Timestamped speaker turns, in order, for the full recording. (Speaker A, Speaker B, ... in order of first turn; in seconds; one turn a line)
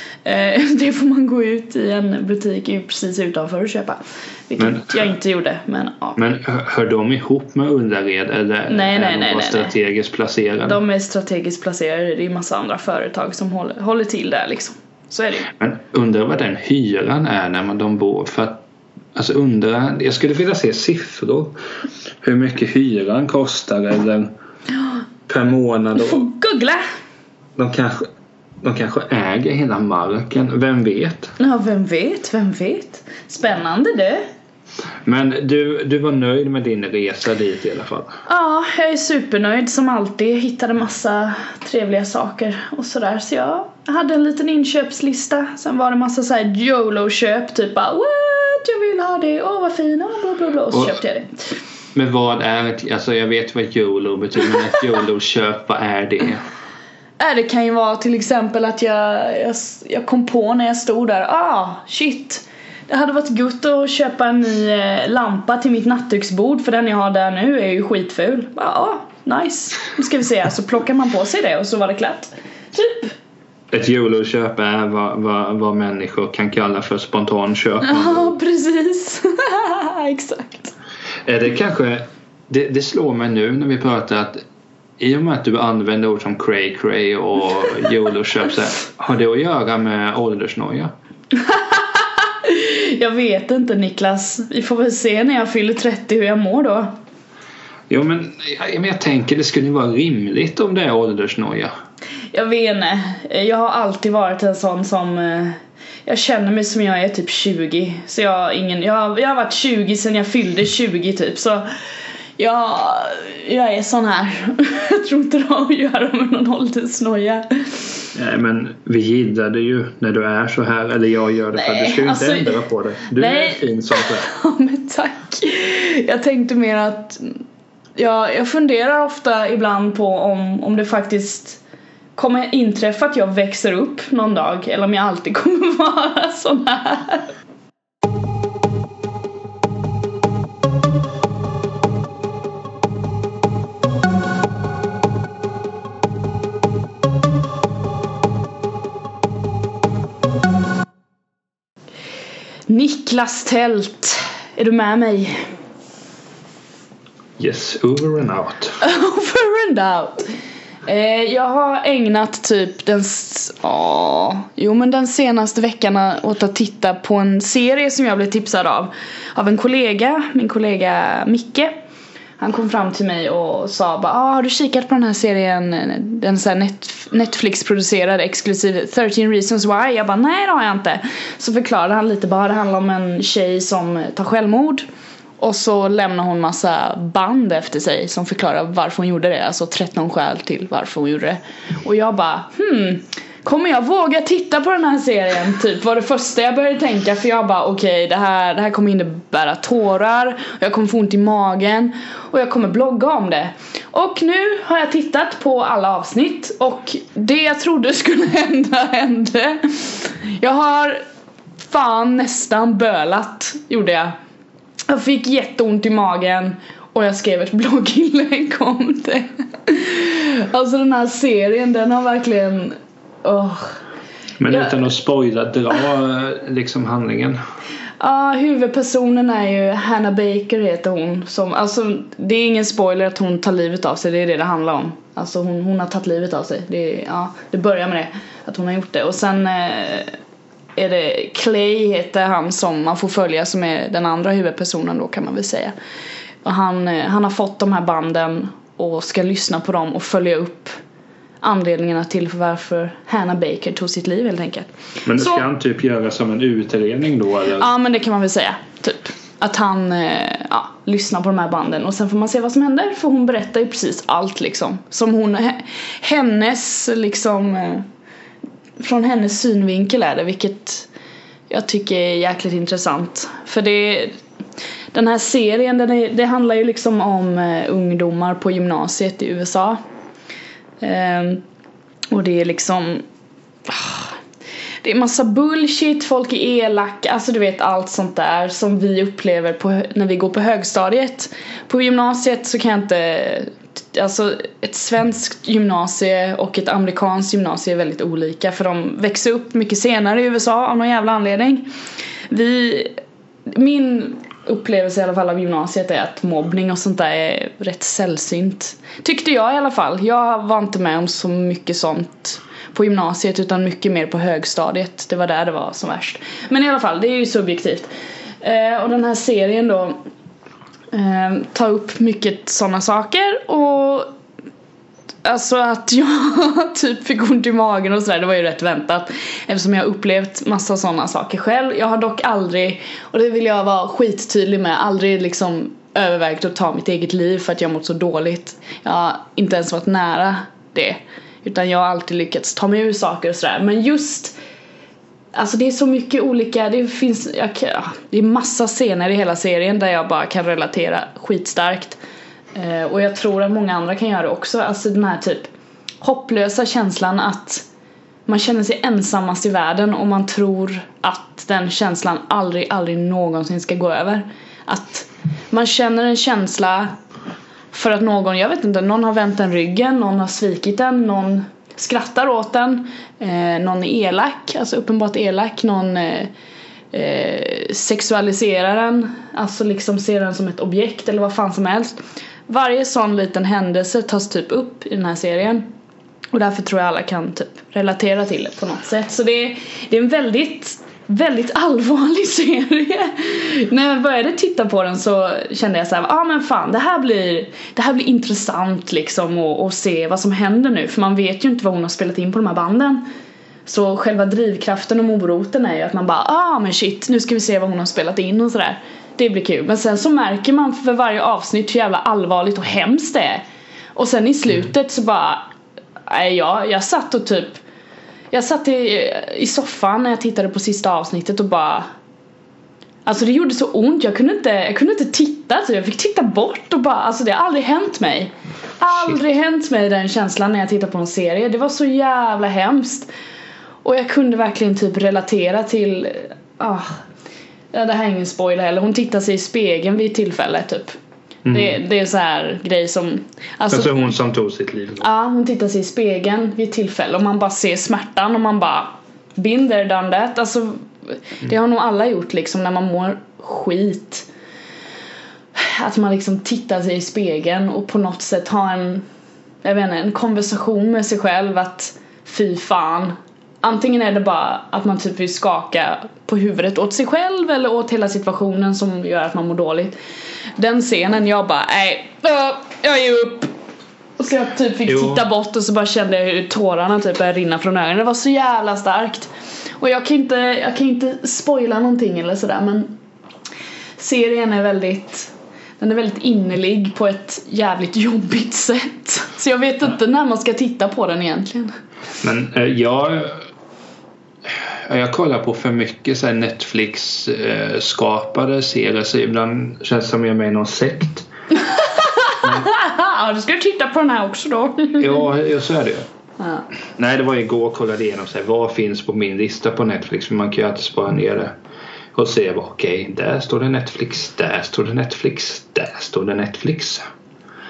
Speaker A: 0.2-6.2
Speaker B: 4.6-5.1
Speaker B: 6.2-10.8
Speaker A: 8.7-9.7
Speaker A: 10.6-15.5
Speaker B: 15.5-18.6
Speaker B: 19.1-21.6
Speaker B: 22.2-24.3
Speaker B: 25.3-26.3
Speaker A: 26.0-26.8
Speaker B: 27.6-28.1
Speaker B: 28.6-31.3
Speaker A: 31.4-34.2
Speaker B: 35.0-38.1
Speaker A: 38.3-51.3
Speaker B: 50.7-51.0
Speaker B: 51.9-56.4
Speaker A: 57.2-73.1
Speaker B: 73.7-78.3
Speaker A: 77.8-80.7
Speaker B: 81.3-84.4
Speaker B: 85.0-90.9
Speaker A: 91.5-96.9
Speaker B: 97.9-101.7
Speaker A: 102.3-111.7
Speaker A: 112.4-118.1
Speaker B: 118.1-124.3
Speaker A: 121.5-122.6
Speaker A: 123.1-127.4
Speaker A: 128.0-131.6
Speaker A: 132.2-137.3
Speaker A: 152.7-155.5
Speaker B: 157.4-158.8
Speaker A: 158.8-160.3
Speaker A: 160.8-171.7
Speaker A: 172.4-184.8
Speaker A: 185.4-211.0
Speaker A: 211.7-214.1
Speaker A: 214.9-223.8
Speaker B: 224.4-227.4
Speaker A: 224.5-224.8
Speaker A: 228.0-240.1
Speaker A: 240.8-245.7
Speaker A: 246.4-250.8
Speaker A: 251.4-255.4
Speaker B: 255.1-257.7
Speaker A: 257.6-267.9
Speaker A: 268.8-270.9
Speaker A: 271.5-274.2
Speaker A: 274.9-279.8
Speaker A: 280.8-281.4
Speaker A: 282.1-283.0
Speaker A: 283.7-284.1
Speaker A: 284.8-301.7
Speaker A: 302.3-302.9
Speaker A: 303.5-317.9
Speaker A: 318.4-320.0
Speaker A: 320.9-324.1
Speaker A: 325.2-344.3
Speaker A: 345.3-352.0
Speaker A: 352.5-355.5
Speaker A: 356.0-357.6
Speaker A: 358.3-366.9
Speaker A: 367.7-376.3
Speaker A: 376.9-385.6
Speaker A: 386.3-403.0
Speaker A: 403.6-413.4
Speaker A: 413.9-415.5
Speaker A: 416.1-417.6
Speaker A: 418.3-421.9
Speaker A: 423.1-433.1
Speaker A: 433.8-437.0
Speaker A: 437.7-440.9
Speaker B: 441.4-441.8
Speaker A: 441.5-444.1
Speaker B: 443.7-445.1
Speaker A: 445.0-454.3
Speaker A: 455.6-459.0
Speaker A: 459.6-469.9
Speaker A: 470.6-473.5
Speaker A: 474.2-482.9
Speaker B: 474.9-475.2
Speaker A: 484.0-491.7
Speaker B: 492.2-493.4
Speaker B: 494.5-501.3
Speaker A: 501.7-505.3
Speaker B: 505.0-506.1
Speaker A: 506.4-506.6
Speaker B: 507.0-511.5
Speaker B: 512.1-517.0